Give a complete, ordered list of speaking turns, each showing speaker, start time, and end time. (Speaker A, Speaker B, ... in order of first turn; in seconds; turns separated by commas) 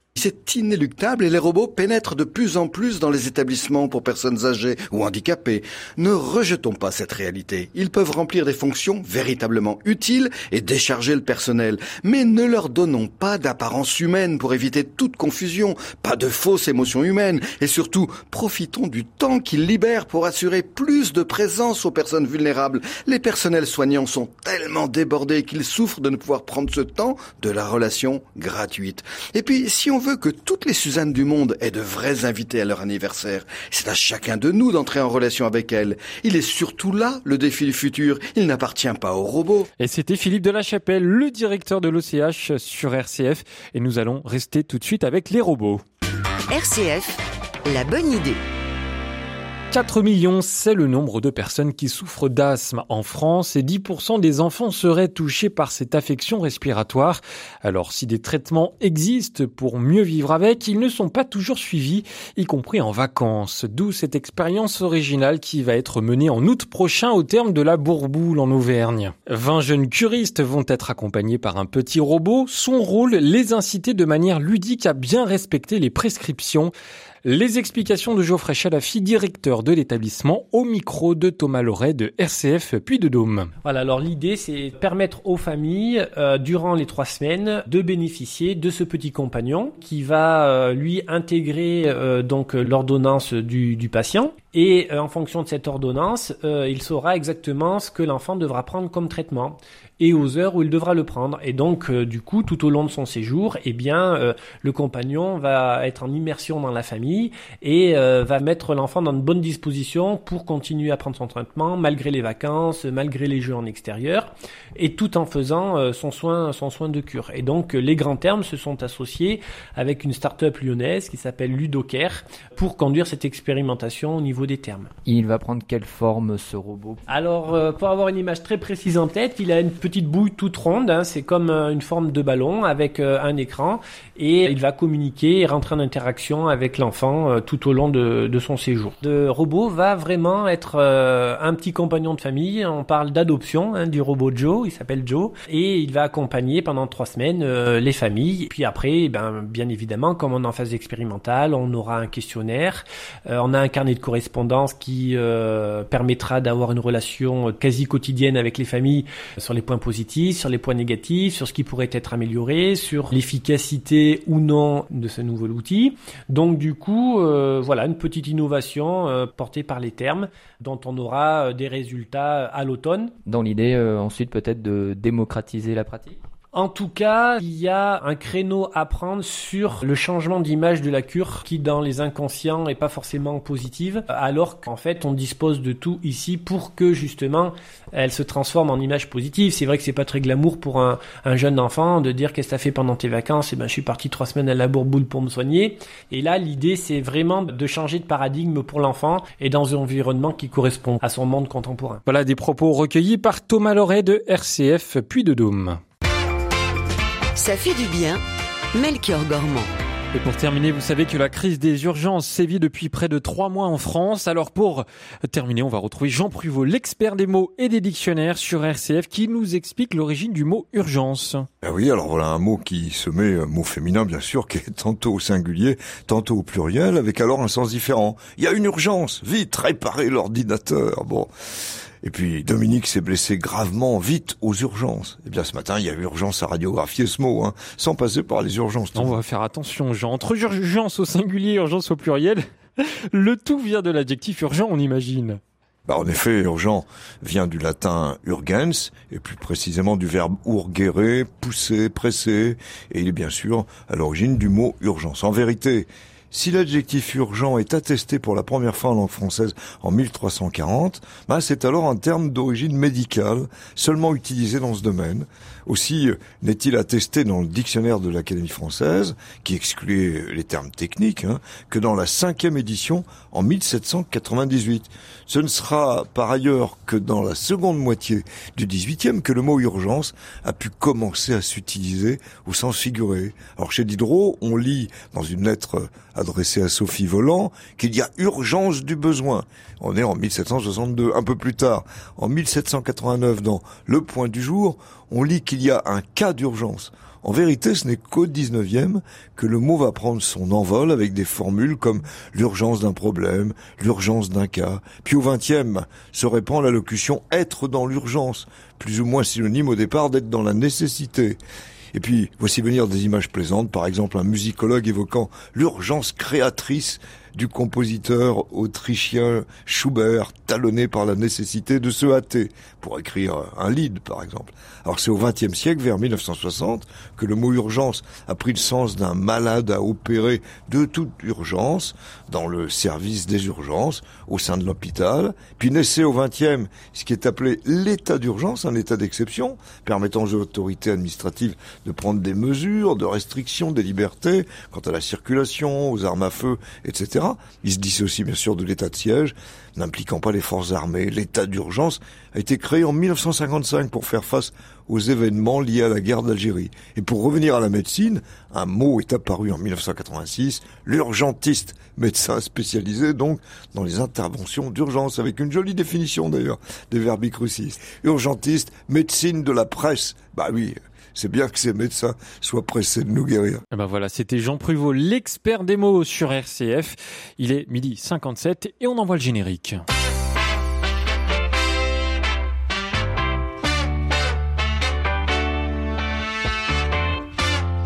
Speaker A: 0.1-39.7, Speaker B: 39.8-45.8, Speaker C: 46.5-48.4, Speaker B: 49.7-76.7, Speaker B: 77.2-83.5, Speaker D: 83.6-124.9, Speaker E: 125.0-127.0, Speaker D: 127.1-173.1, Speaker E: 173.2-176.2, Speaker D: 176.5-202.0, Speaker B: 202.1-205.8, Speaker C: 207.3-208.2, Speaker C: 208.7-209.7, Speaker B: 210.1-221.5, Speaker F: 221.6-231.3, Speaker F: 232.0-239.2, Speaker B: 238.9-245.4, Speaker F: 245.9-311.4, Speaker F: 311.9-373.6, Speaker B: 373.7-379.8